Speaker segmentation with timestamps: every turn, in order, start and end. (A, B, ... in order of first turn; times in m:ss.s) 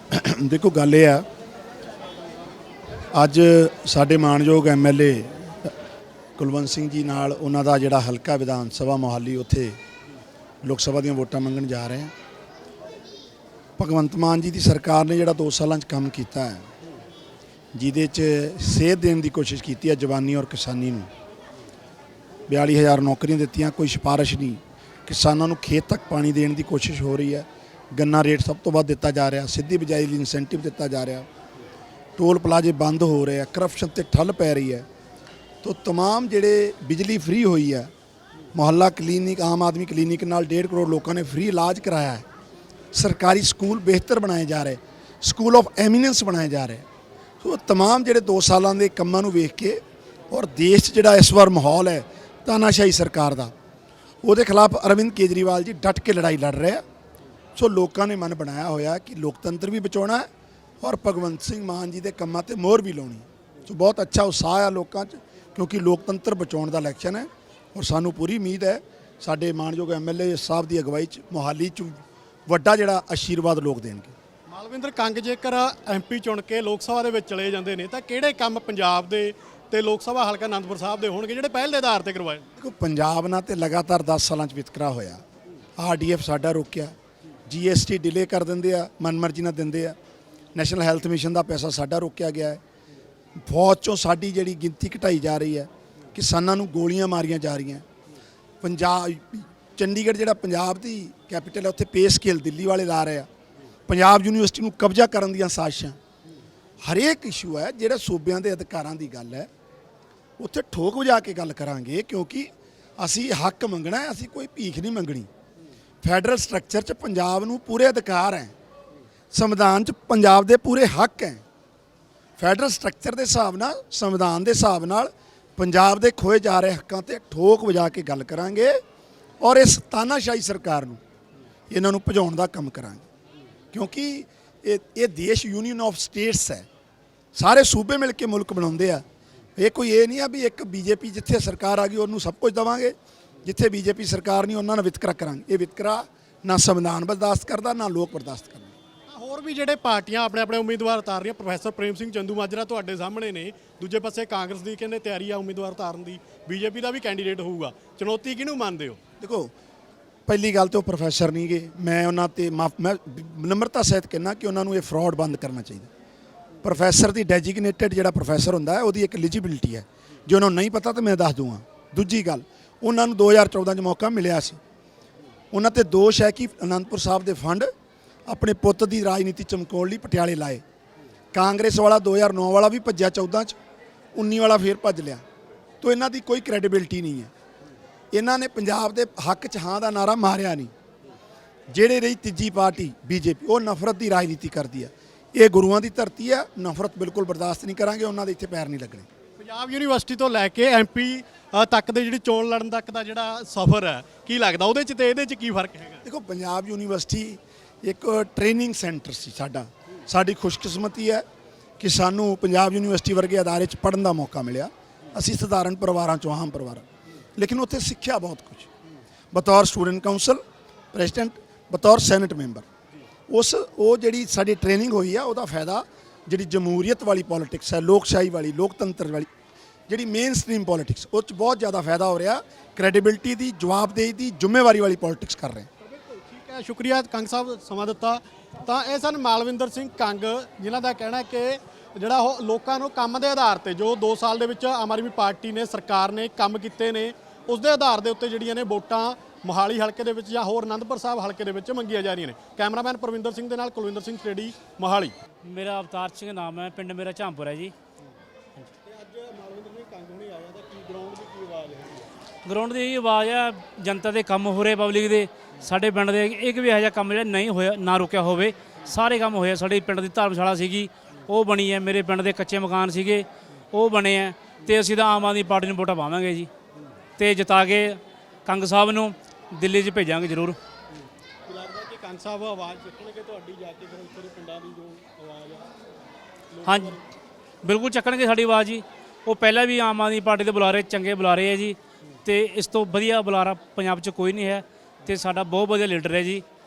0:00.1-0:01.2 A
0:03.1-0:05.7 A
0:06.4-0:09.8 A
0:10.6-0:12.1 A
0:13.8-0:16.7 A
0:17.8-0:21.1 A
0:22.5-0:31.3 A
0:32.2-0:34.9 A
0:35.6-0:37.9 A
0:38.5-0:42.2 A
0:42.9-0:46.9 A
0:47.4-0:53.5 A
0:54.2-0:56.8 A
0:57.6-1:00.3 A
1:00.8-1:14.1 A
1:14.5-1:22.5 B
1:22.6-1:25.2 A
1:25.8-1:26.9 A
1:27.5-1:30.0 A
1:30.6-1:32.6 A
1:33.4-1:37.8 A
1:38.6-1:43.3 A
1:43.9-1:46.0 A
1:46.8-1:49.5 A
1:50.4-1:55.3 A
1:56.0-1:58.5 A
1:59.3-2:01.4 A
2:02.4-2:08.8 A
2:09.4-2:11.0 A
2:11.7-2:13.0 A
2:13.7-2:16.7 A
2:17.3-2:19.0 A
2:19.6-2:28.7 A
2:29.1-2:39.0 B
2:39.2-2:39.5 A
2:40.3-2:45.9 A
2:46.6-2:54.6 A
2:55.5-2:57.7 A
2:58.3-3:00.6 A
3:01.3-3:03.6 A
3:04.2-3:05.2 A
3:05.8-3:07.3 A
3:08.1-3:10.7 A
3:11.7-3:19.1 A
3:19.4-3:26.0 B
3:26.0-3:31.2 A
3:31.8-3:36.8 A
3:37.4-3:38.7 A
3:39.3-3:40.4 A
3:40.9-3:42.7 A
3:43.3-3:49.3 A
3:49.9-3:55.7 A
3:55.8-4:15.1 B
4:15.4-4:17.7 C
4:18.8-4:22.1 B
4:22.4-4:36.5 C
4:37.2-4:40.6 C
4:41.5-4:45.7 B
4:46.5-4:47.0 B
4:46.6-4:47.0 C
4:47.6-4:56.4 C